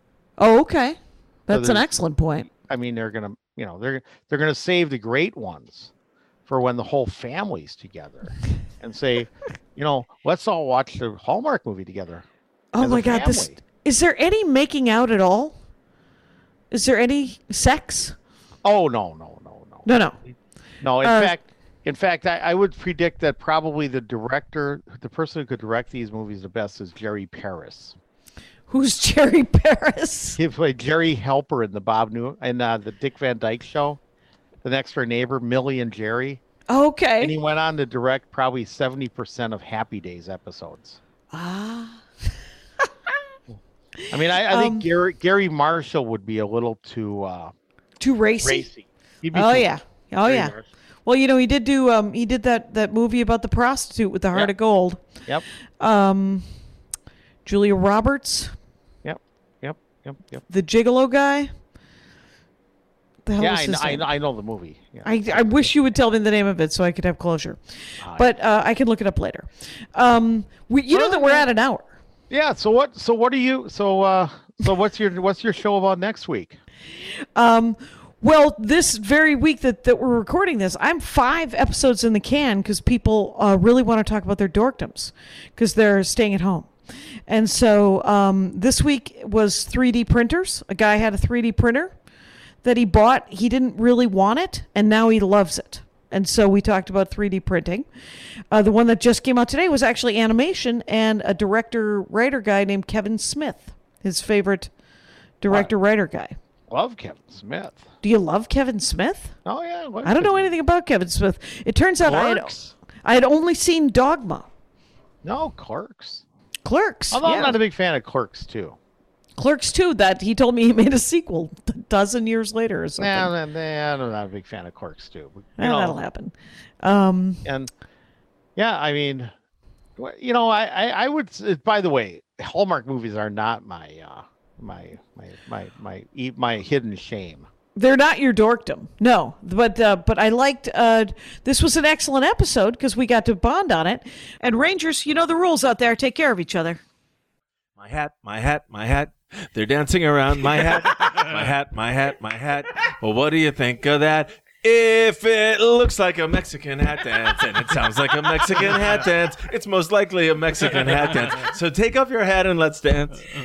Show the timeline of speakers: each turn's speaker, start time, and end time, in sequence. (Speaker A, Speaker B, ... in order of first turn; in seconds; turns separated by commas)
Speaker A: 0.4-2.5, Speaker B: 1.5-1.9, Speaker B: 2.5-5.9, Speaker B: 6.5-12.2, Speaker A: 12.7-15.6, Speaker B: 12.8-13.6, Speaker A: 16.7-18.1, Speaker B: 18.6-19.9, Speaker A: 19.9-20.2, Speaker B: 20.8-28.0, Speaker A: 21.0-21.4, Speaker A: 28.7-30.4, Speaker B: 30.4-34.0, Speaker B: 34.6-36.4, Speaker A: 36.7-37.3, Speaker B: 37.2-41.0, Speaker A: 41.3-42.0, Speaker B: 44.1-47.5, Speaker A: 44.3-44.9, Speaker A: 48.0-48.7, Speaker B: 48.4-49.7, Speaker A: 49.3-50.5, Speaker B: 50.2-50.6, Speaker A: 51.0-55.0, Speaker A: 55.8-56.5, Speaker A: 57.5-58.5, Speaker B: 59.0-60.4, Speaker A: 60.5-61.5, Speaker A: 63.3-64.1, Speaker B: 63.4-65.7, Speaker A: 65.0-67.6, Speaker B: 68.0-68.3, Speaker A: 68.1-71.9, Speaker B: 70.9-71.5, Speaker B: 72.3-76.6, Speaker A: 77.4-86.7, Speaker A: 87.3-91.9, Speaker A: 92.6-97.9, Speaker A: 98.5-104.7, Speaker A: 105.4-106.4, Speaker B: 106.7-107.9, Speaker A: 108.0-109.3, Speaker B: 109.5-110.5, Speaker A: 110.0-114.5, Speaker B: 112.1-112.7, Speaker B: 115.2-116.2, Speaker A: 116.6-117.6, Speaker B: 117.1-118.8, Speaker A: 119.4-123.3, Speaker B: 123.0-126.0, Speaker A: 125.6-127.4, Speaker B: 127.4-127.7, Speaker B: 128.6-129.3, Speaker B: 130.0-137.5, Speaker A: 137.8-146.8, Speaker C: 147.8-163.2